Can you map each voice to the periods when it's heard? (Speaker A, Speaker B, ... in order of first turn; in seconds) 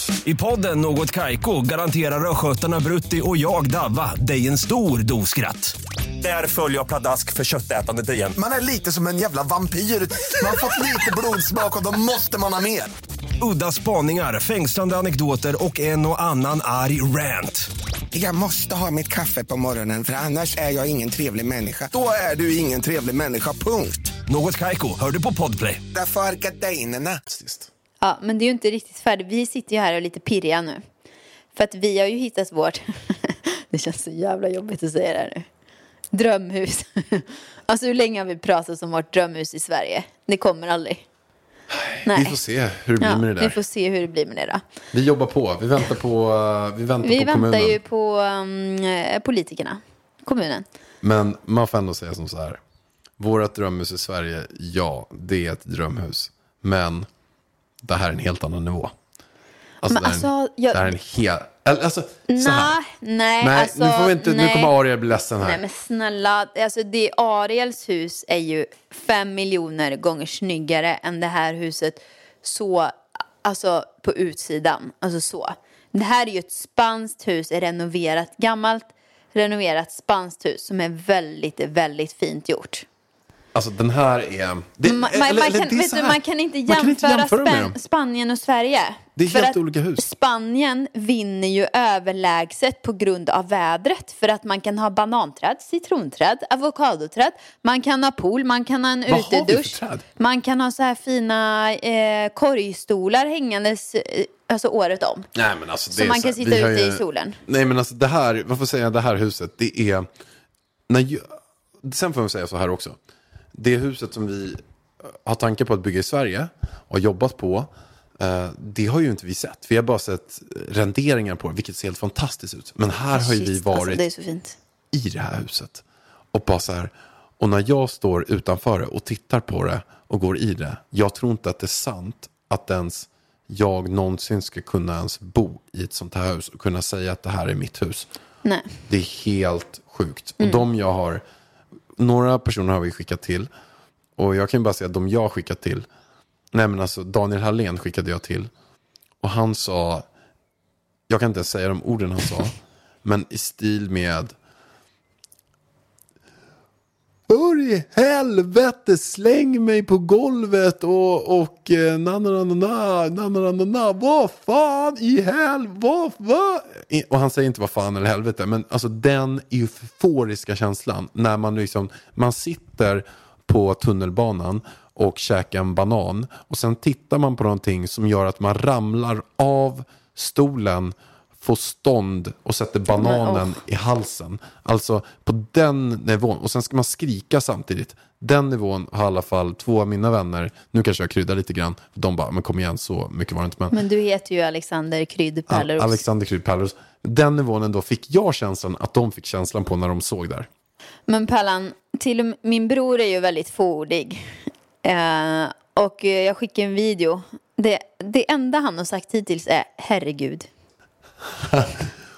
Speaker A: 0.2-8.4, 13.4-17.7, 24.3-25.8
Speaker B: 8.4-12.9, 18.1-24.1, 25.9-27.2
Speaker C: 27.3-27.7, 41.7-43.6, 44.9-47.8, 51.0-52.6, 53.2-57.1, 57.8-58.9, 59.8-62.8, 63.4-65.6, 83.5-87.8, 89.2-90.1, 99.1-100.0, 105.3-110.1, 110.9-113.0, 113.5-124.0, 124.9-138.1, 138.9-141.2, 142.0-143.5, 144.2-145.9, 146.5-148.5, 149.2-150.1, 151.1-154.3, 157.3-193.8, 195.5-200.5, 211.3-211.9
Speaker D: 28.0-30.8, 31.5-35.5, 36.1-41.0, 42.0-42.4, 43.0-44.6, 47.0-50.6, 59.9-60.9, 62.3-64.7, 65.4-82.9, 84.8-105.3, 105.9-107.4, 123.1-124.6, 140.4-140.6, 182.9-183.6, 193.7-196.0, 201.1-210.5